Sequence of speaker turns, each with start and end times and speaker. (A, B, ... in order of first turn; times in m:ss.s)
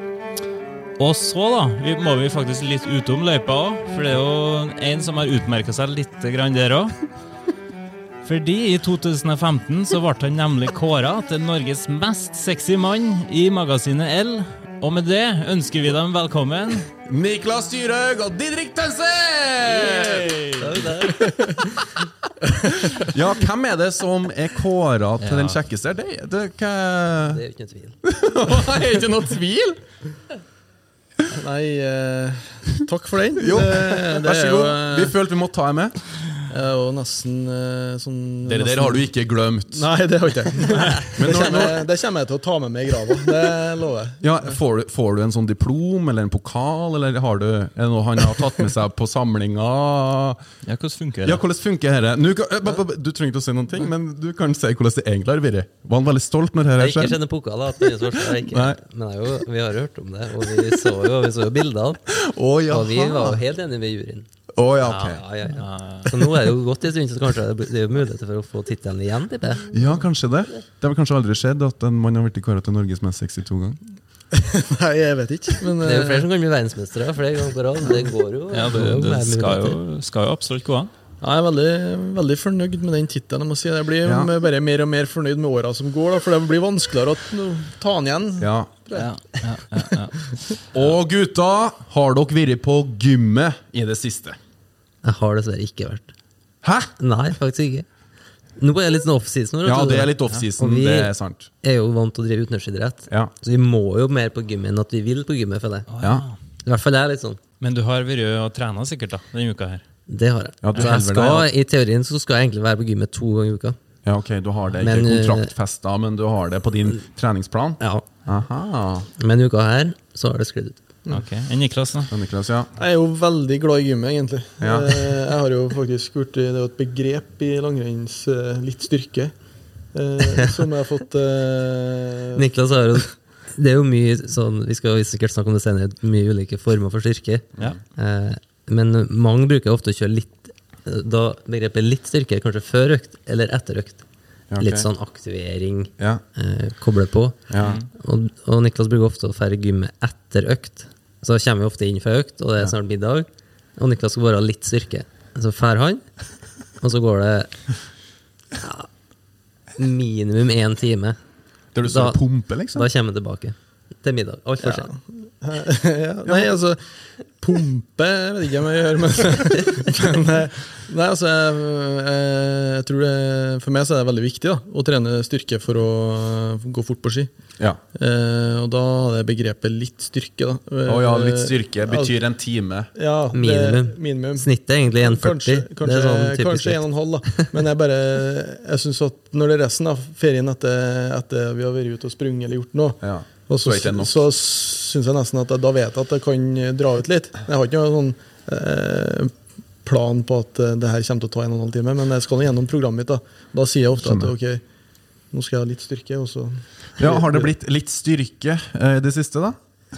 0:01.0-0:07.0 A
0:08.2-0:16.9 A
0:17.0-0:21.0 B
0:19.8-0:21.4 C
0:22.9-0:27.4 B
0:25.2-0:25.6 A
0:27.3-0:28.0 C
0:28.0-0:29.8 B
0:31.3-0:35.1 D
0:33.4-0:36.0 B
0:36.5-0:39.0 D
0:38.4-0:39.9 B
0:39.7-0:44.2 D
0:41.1-0:41.8 B
0:44.2-0:50.4 B
0:50.6-0:51.4 A
0:51.2-0:57.2 B
0:56.8-1:02.0 C
0:58.2-0:58.8 B
1:02.1-1:03.4 B
1:02.7-1:04.3 C
1:04.6-1:05.2 B
1:04.8-1:09.7 C
1:05.6-1:06.1 A
1:09.7-1:13.8 B
1:14.3-1:16.3 D
1:15.8-1:19.8 C
1:18.5-1:20.9 A
1:21.2-1:29.1 D
1:24.0-1:24.3 B
1:28.4-1:28.7 B
1:28.9-1:30.8 A
1:30.7-1:34.4 B
1:35.0-1:36.1 C
1:36.6-1:36.9 B
1:37.0-1:37.9 C
1:38.6-1:45.9 C
1:39.6-1:41.5 B
1:45.9-1:46.4 A
1:46.0-1:46.2 B
1:46.6-1:47.4 C
1:47.6-1:49.8 A
1:50.1-1:53.8 C
1:50.6-1:51.5 B
1:50.8-1:51.0 A
1:54.0-1:59.1 B
1:54.8-1:55.5 C
1:59.2-2:00.8 C
2:01.1-2:02.1 A
2:02.1-2:02.7 B
2:02.8-2:09.3 D
2:04.6-2:05.1 B
2:09.9-2:12.4 D
2:12.3-2:24.0 C
2:24.5-2:24.9 B
2:24.6-2:36.0 C
2:27.5-2:27.8 B
2:27.6-2:27.9 A
2:36.8-2:37.6 C
2:38.6-2:38.9 C
2:39.8-2:41.2 C
2:41.7-2:42.9 B
2:41.8-2:44.9 C
2:44.6-2:57.3 D
2:46.2-2:46.5 B
2:57.9-3:02.1 D
3:00.9-3:02.9 B
3:02.9-3:04.5 D
3:03.3-3:07.5 C
3:05.0-3:19.3 D
3:13.0-3:14.2 B
3:19.8-3:24.6 D
3:24.0-3:24.3 B
3:25.3-3:27.5 D
3:27.0-3:29.6 B